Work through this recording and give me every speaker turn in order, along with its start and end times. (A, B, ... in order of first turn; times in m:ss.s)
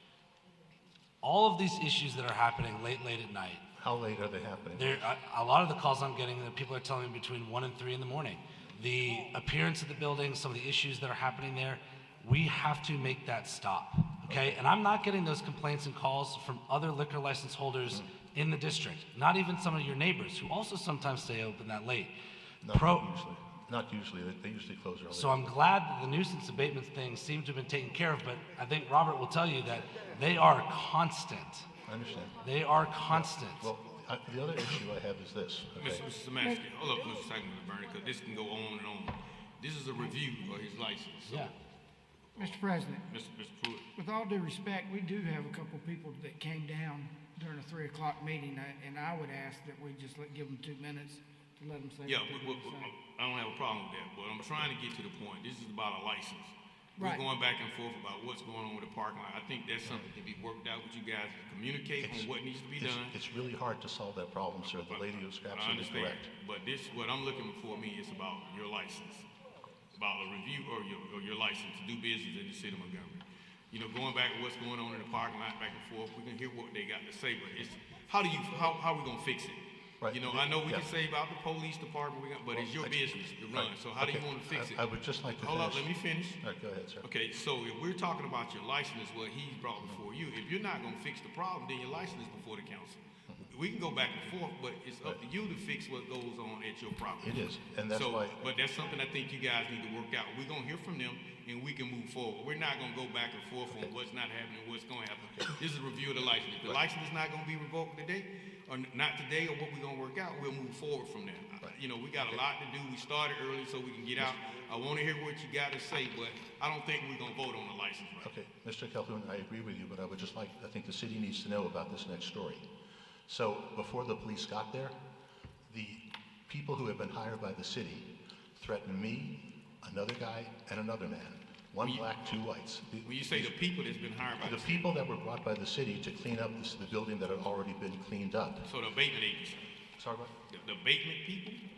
0:01.2-0:03.6 A
0:03.8-0:05.1 B
0:04.8-0:22.1 A
0:14.3-0:14.6 B
0:22.6-0:25.6 B
0:22.7-0:23.0 A
0:25.1-0:31.7 A
0:31.9-0:32.4 B
0:32.4-0:33.7 A
0:33.1-0:36.1 B
0:35.8-0:41.6 C
0:41.3-0:41.5 A
0:42.4-0:43.8 C
0:42.4-0:43.0 D
0:44.0-0:52.9 D
0:52.0-1:03.2 C
1:02.0-1:06.3 B
1:04.7-1:09.3 C
1:09.9-1:24.8 C
1:20.0-1:20.9 B
1:22.5-1:25.9 B
1:25.4-1:26.4 C
1:26.4-1:27.1 B
1:27.0-1:58.3 C
1:37.2-1:38.5 B
1:45.2-1:45.6 B
1:51.6-1:52.4 B
1:58.2-2:02.6 B
2:03.3-2:05.0 B
2:05.7-2:13.6 B
2:11.8-2:12.0 C
2:13.0-2:14.8 C
2:14.4-2:18.7 B
2:18.7-2:19.6 C
2:20.0-2:20.3 B
2:20.5-2:21.6 C